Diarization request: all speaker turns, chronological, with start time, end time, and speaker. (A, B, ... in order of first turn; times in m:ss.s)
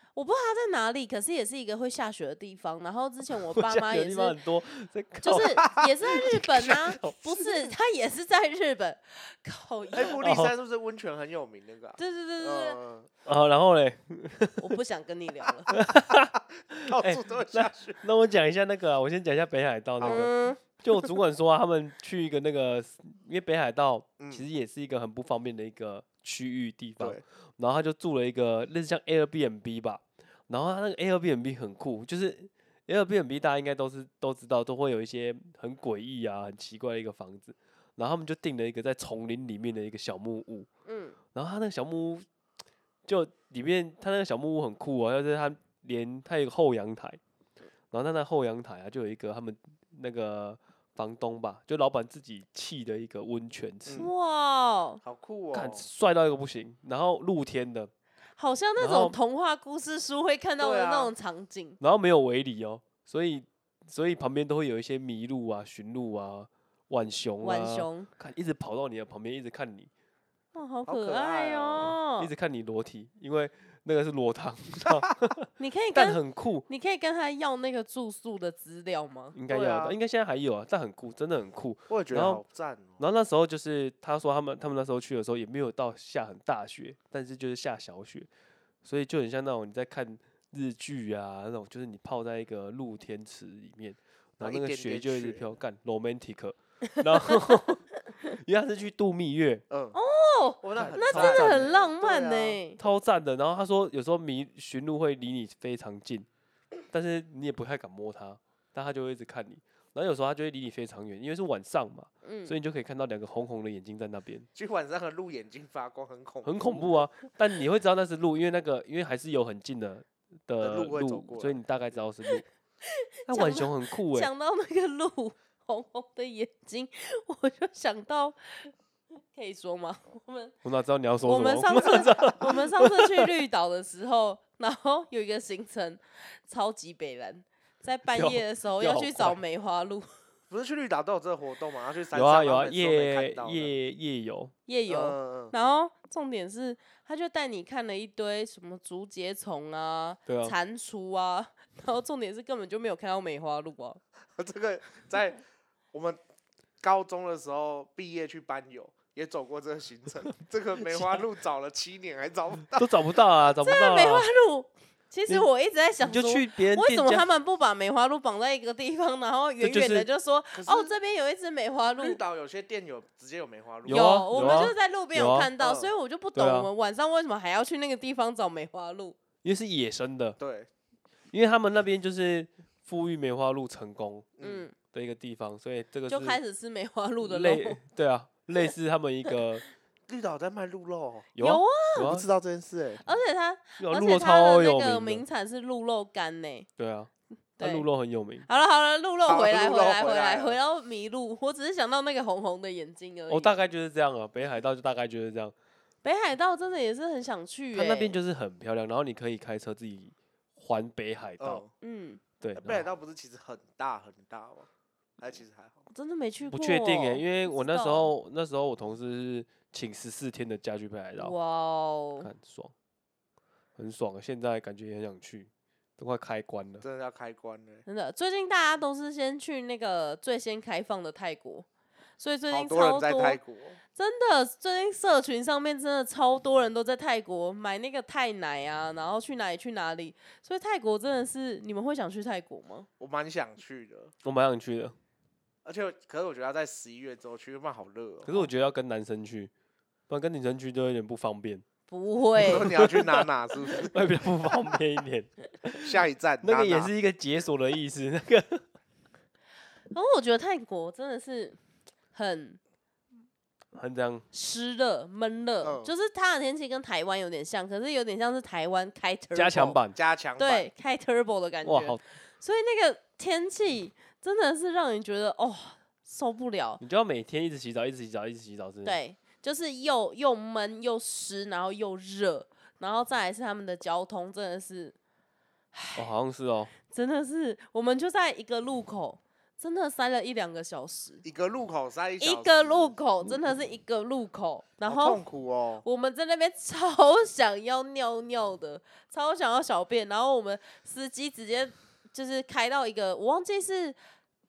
0:00.2-0:04.4 A
0:03.5-0:07.2 B
0:05.2-0:10.2 A
0:05.6-0:05.9 C
0:09.9-0:13.1 C
0:10.2-0:10.5 B
0:12.0-0:12.8 A
0:13.2-0:14.7 B
0:14.6-0:15.7 A
0:15.7-0:40.7 B
0:16.9-0:18.0 C
0:20.0-0:20.3 C
0:20.0-0:20.6 A
0:40.9-0:41.2 A
0:41.3-0:42.3 B
0:43.1-0:47.2 B
0:47.9-0:54.1 B
0:53.9-0:55.0 A
0:55.0-0:55.9 C
0:55.5-0:57.9 B
0:58.4-1:01.8 A
0:58.8-0:59.2 B
1:00.6-1:01.1 C
1:01.8-1:09.9 B
1:07.4-1:08.1 A
1:10.5-1:12.3 A
1:10.9-1:12.0 C
1:12.2-1:16.7 B
1:15.6-1:19.4 A
1:19.3-1:22.4 B
1:19.5-1:20.0 C
1:21.9-1:23.0 C
1:23.0-1:28.3 B
1:28.8-1:39.6 B
1:34.4-1:35.5 C
1:39.7-1:40.0 C
1:39.9-1:42.8 A
1:40.6-1:42.6 C
1:40.8-1:41.7 B
1:42.8-1:46.3 B
1:46.9-1:54.5 B
1:52.2-1:52.6 A
1:54.6-1:56.8 C
1:56.4-2:02.4 B
2:00.6-2:01.6 C
2:02.9-2:08.7 A
2:03.3-2:04.3 B
2:09.3-2:10.5 A
2:10.6-2:13.3 B
2:11.2-2:20.1 A
2:18.1-2:19.4 B
2:20.5-2:23.7 C
2:22.1-2:24.5 B
2:24.7-2:34.0 A
2:24.9-2:25.6 C
2:30.3-2:30.6 B
2:34.4-2:35.4 C
2:35.9-2:36.2 C
2:36.8-2:42.9 C
2:40.9-2:41.2 B
2:42.7-2:44.3 B
2:43.6-2:52.2 A
2:46.0-2:47.2 B
2:49.6-2:50.1 B
2:50.5-2:50.9 C
2:52.0-2:54.8 C
2:53.8-2:55.5 B
2:53.9-2:59.2 A
2:55.6-2:55.9 C
2:56.4-2:56.7 B
2:59.4-3:00.4 B
3:00.4-3:00.7 C
3:01.3-3:04.3 B
3:04.4-3:04.7 C
3:04.4-3:04.8 A
3:04.9-3:06.4 B
3:06.1-3:07.8 A
3:07.2-3:09.6 B
3:10.1-3:11.3 C
3:11.4-3:12.3 B
3:11.4-3:12.1 A
3:12.0-3:13.0 C
3:13.0-3:16.7 A
3:13.8-3:15.2 B
3:16.8-3:18.5 B
3:17.6-3:17.9 A
3:18.5-3:23.6 A
3:19.3-3:20.6 C
3:23.3-3:25.5 B
3:26.0-3:28.2 A
3:27.7-3:31.6 B
3:31.4-3:31.7 C
3:31.8-3:32.2 A
3:32.4-3:32.9 B
3:32.6-3:34.7 C
3:35.2-3:35.8 C
3:35.9-3:38.1 A
3:36.5-3:41.3 B
3:41.2-3:42.3 A
3:42.2-3:42.7 B
3:43.8-3:46.8 B
3:46.8-3:47.8 C
3:47.9-3:51.7 A
3:52.2-3:53.4 A
3:52.5-3:53.8 C
3:54.0-4:02.9 A
4:03.0-4:04.1 C
4:04.2-4:05.0 B
4:05.6-4:08.5 C
4:08.2-4:09.5 B
4:10.1-4:11.6 B
4:11.9-4:12.9 A
4:12.4-4:13.9 C
4:13.8-4:15.9 B
4:15.8-4:16.9 C
4:16.4-4:18.6 B
4:19.9-4:21.6 A
4:22.1-4:22.6 A
4:23.8-4:24.2 B
4:24.3-4:29.8 A
4:25.6-4:25.9 C
4:29.3-4:30.0 B
4:29.9-4:30.7 C
4:30.4-4:36.8 A
4:31.6-4:32.0 B
4:36.8-4:39.0 B
4:38.8-4:45.0 A
4:45.7-4:46.1 A
4:46.0-4:46.7 B
4:46.9-4:51.2 A
4:51.2-4:53.0 C
4:52.2-4:55.2 A
4:54.8-4:55.8 C
4:55.8-5:04.0 A